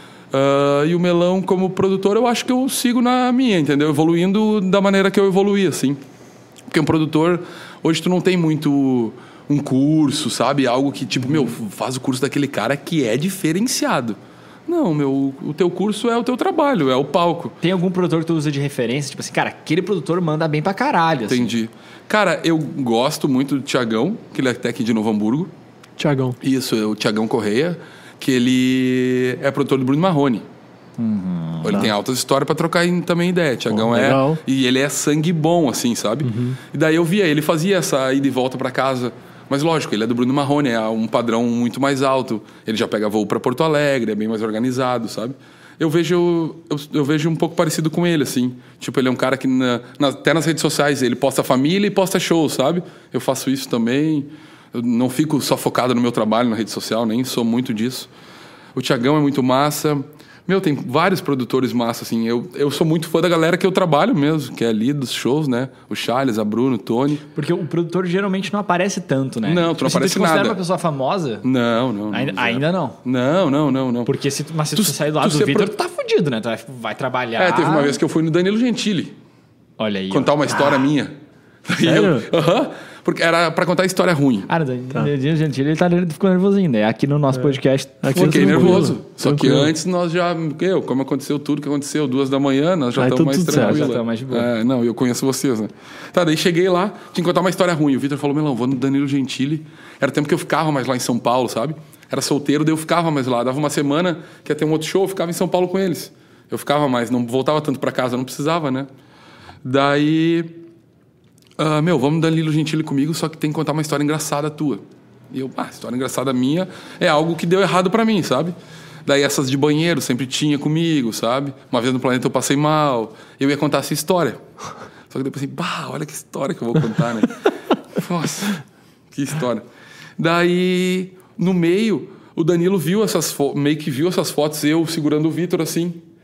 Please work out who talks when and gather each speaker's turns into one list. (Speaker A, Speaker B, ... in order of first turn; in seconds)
Speaker A: 0.3-6.0, 6.7-17.6, 21.3-25.5, 26.4-30.4, 31.6-58.1, 58.7-67.2, 69.4-70.6, 71.4-74.1, 74.7-75.7, 77.4-79.1, 80.1-81.1, 81.7-84.5, 88.1-108.9, 109.6-110.5, 111.6-118.5, 119.0-124.4, 125.1-127.4, 127.9-129.6, 130.2-136.0
Speaker B: 17.6-21.5, 31.0-31.9, 67.3-71.4, 72.1-73.0, 74.0-78.0, 79.8-80.9, 84.5-88.9, 93.5-94.5
Speaker C: 26.0-26.4, 33.7-34.4, 36.2-36.6, 81.8-82.3, 87.4-89.7, 93.0-93.9